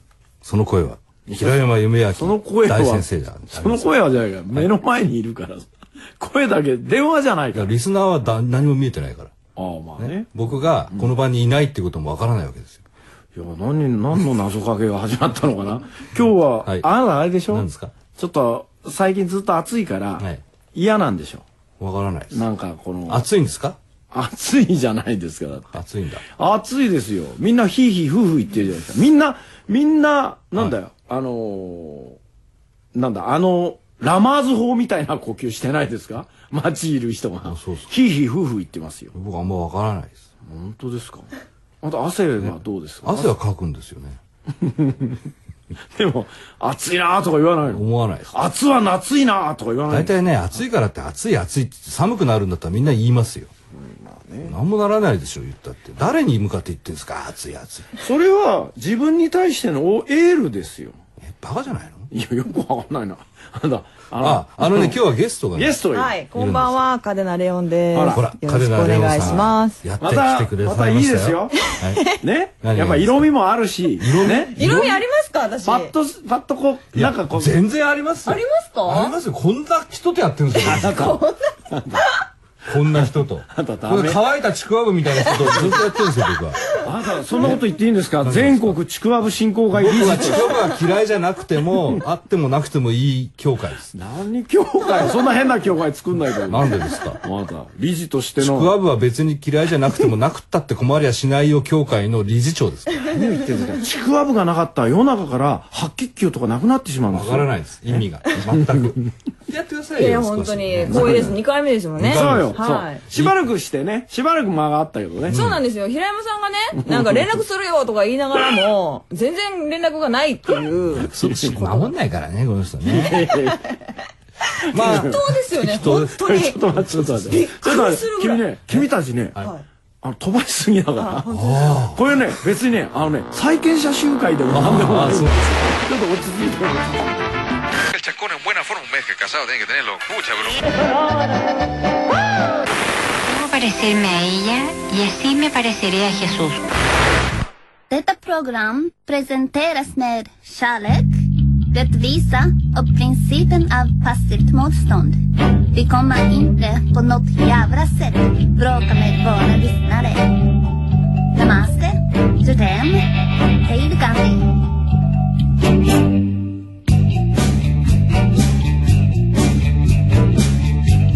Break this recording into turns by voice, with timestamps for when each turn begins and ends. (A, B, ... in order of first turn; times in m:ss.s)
0:00.4-0:04.0 A
0:01.3-0:05.7 B
0:06.2-0:07.7 B
0:07.5-0:09.3 A
0:09.6-0:10.3 B
0:10.0-0:12.8 A
0:13.4-0:21.4 B
0:17.5-0:17.9 A
0:21.8-0:22.4 A
0:22.3-0:23.2 B
0:23.1-0:23.8 A
0:24.1-0:32.2 B
0:25.7-0:26.2 A
0:32.9-0:39.1 B
0:37.4-0:37.9 A
0:39.1-0:40.2 A
0:40.4-0:41.3 B
0:41.8-0:43.3 B
0:42.4-0:44.2 A
0:44.6-0:45.2 B
0:45.9-0:50.2 B
0:47.7-0:48.4 A
0:49.9-0:53.5 A
0:53.8-0:54.6 B
0:54.4-0:57.9 A
0:58.0-1:01.0 B
1:01.2-1:02.1 A
1:02.1-1:05.0 B
1:04.2-1:05.8 A
1:05.6-1:06.2 B
1:05.9-1:09.8 C
1:06.3-1:06.9 A
1:07.9-1:08.2 B
1:08.1-1:12.0 A
1:10.0-1:14.7 B
1:11.7-1:12.1 C
1:12.6-1:13.3 A
1:14.0-1:15.0 A
1:14.2-1:15.9 C
1:15.6-1:17.6 B
1:16.9-1:21.2 A
1:18.2-1:19.2 C
1:20.6-1:22.1 B
1:20.8-1:21.6 C
1:22.6-1:26.8 A
1:22.9-1:24.2 B
1:25.5-1:25.7 B
1:26.8-1:30.6 B
1:28.2-1:28.8 A
1:29.7-1:33.9 A
1:33.9-1:36.7 B
1:36.5-1:37.2 A
1:37.2-1:38.7 B
1:38.4-1:43.2 A
1:43.1-1:48.9 B
1:47.1-1:51.3 A
1:50.0-1:53.0 C
1:50.9-1:51.4 B
1:52.0-1:53.4 A
1:52.0-1:55.4 B
1:55.3-1:55.6 A
1:55.3-2:01.9 C
1:56.8-1:57.4 B
2:00.9-2:03.2 A
2:01.0-2:01.6 B
2:02.9-2:03.7 B
2:04.7-2:06.6 C
2:04.7-2:06.2 A
2:04.7-2:05.2 B
2:06.2-2:09.4 B
2:06.7-2:07.4 A
2:07.3-2:08.4 C
2:08.7-2:09.6 A
2:09.4-2:09.6 C
2:10.0-2:11.3 B
2:11.0-2:11.9 C
2:11.3-2:12.0 A
2:11.9-2:17.1 B
2:14.5-2:15.5 A
2:17.9-2:20.6 D
2:23.2-2:26.6 E
2:27.9-2:40.6 F
2:41.3-2:44.6 F